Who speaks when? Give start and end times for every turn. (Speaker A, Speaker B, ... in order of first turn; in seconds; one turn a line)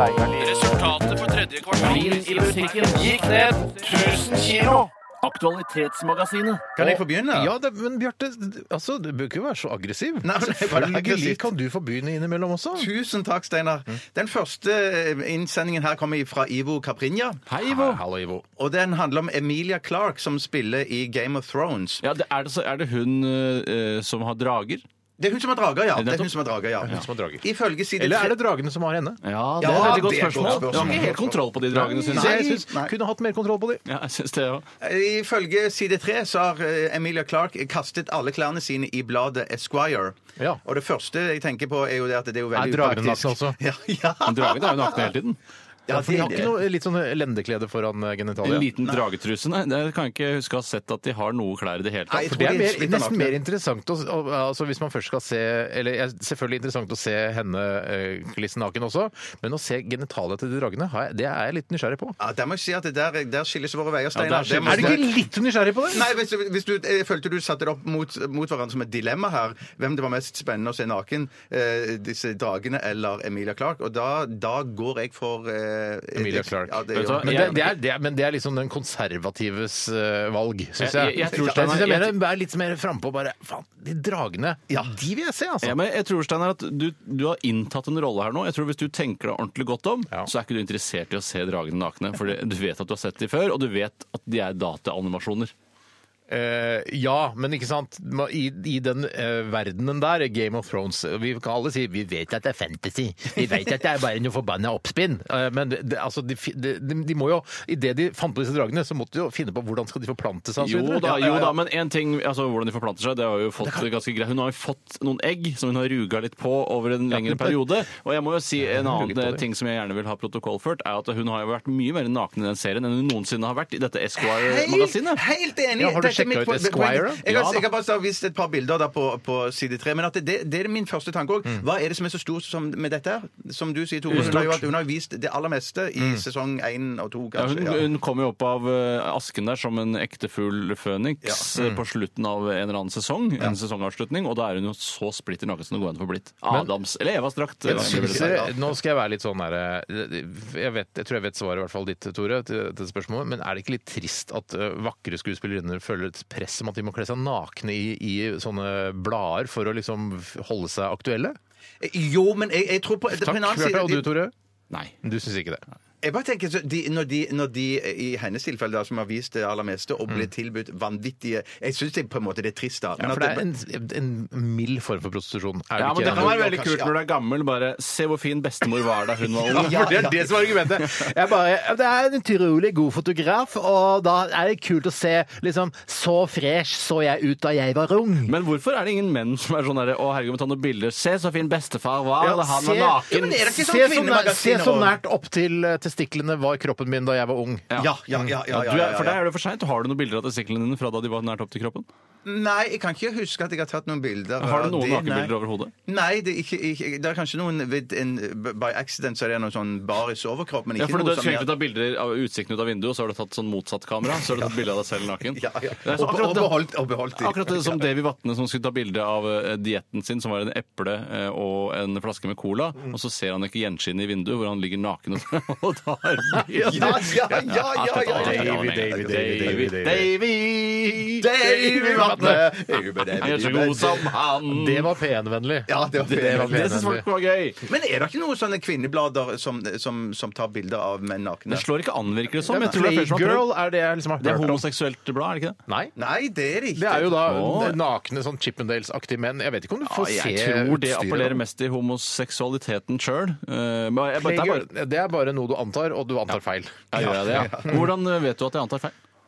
Speaker A: 0.4-6.6
Speaker B: 6.8-7.5
Speaker C: 6.8-12.9
Speaker B: 10.2-11.4
Speaker B: 12.8-17.4
Speaker A: 17.5-18.0
Speaker C: 17.7-18.4
Speaker B: 18.6-22.0
Speaker A: 22.0-24.9
Speaker B: 25.2-28.4
Speaker A: 25.9-26.4
Speaker C: 26.8-27.4
Speaker C: 28.0-31.1
Speaker A: 29.2-32.7
Speaker B: 29.6-31.4
Speaker C: 31.7-33.8
Speaker B: 32.0-32.9
Speaker A: 33.9-34.7
Speaker B: 34.8-45.1
Speaker C: 40.4-40.6
Speaker C: 42.5-43.6
Speaker A: 44.2-45.4
Speaker B: 45.9-46.5
Speaker C: 45.9-48.7
Speaker A: 48.4-52.4
Speaker B: 52.1-53.4
Speaker C: 52.2-62.2
Speaker B: 62.2-65.0
Speaker A: 64.2-65.0
Speaker C: 64.2-66.1
Speaker B: 65.9-77.7
Speaker C: 76.2-85.8
Speaker A: 76.9-77.7
Speaker A: 80.8-82.2
Speaker B: 81.3-81.7
Speaker A: 85.6-95.5
Speaker C: 96.3-111.3
Speaker A: 110.6-125.2
Speaker B: 111.1-111.5
Speaker C: 113.6-113.9
Speaker C: 117.1-117.7
Speaker C: 118.6-119.4
Speaker B: 124.2-137.9
Speaker C: 125.8-127.2
Speaker A: 127.3-127.7
Speaker A: 134.1-134.6
Speaker C: 134.1-134.6
Speaker C: 136.0-136.2
Speaker A: 137.3-148.4
Speaker C: 141.6-141.8
Speaker B: 147.7-148.6
Speaker C: 147.7-161.4
Speaker B: 161.8-164.1
Speaker C: 163.1-164.3
Speaker C: 165.0-165.6
Speaker B: 166.0-173.4
Speaker C: 173.0-176.4
Speaker A: 175.8-180.0
Speaker B: 176.0-176.9
Speaker B: 179.4-180.3
Speaker C: 179.5-188.4
Speaker A: 188.3-193.5
Speaker C: 192.2-197.7
Speaker B: 193.1-194.9
Speaker B: 197.8-199.2
Speaker A: 198.5-201.9
Speaker B: 202.2-205.3
Speaker A: 204.4-205.7
Speaker B: 205.9-211.5
Speaker A: 210.8-216.6
Speaker B: 214.2-214.6
Speaker B: 215.3-217.9
Speaker A: 217.2-232.4
Speaker B: 226.7-229.8
Speaker C: 226.8-230.1
Speaker B: 231.2-234.1
Speaker C: 231.7-232.5
Speaker A: 233.2-234.9
Speaker C: 234.5-237.1
Speaker B: 235.7-236.8
Speaker A: 236.0-237.6
Speaker B: 237.7-241.7
Speaker A: 241.5-243.5
Speaker C: 242.5-244.7
Speaker A: 244.2-245.6
Speaker C: 245.7-245.9
Speaker B: 246.0-247.2
Speaker C: 246.7-251.4
Speaker A: 247.2-247.8
Speaker A: 249.8-254.7
Speaker C: 254.2-257.9
Speaker A: 256.9-258.9
Speaker B: 257.0-257.9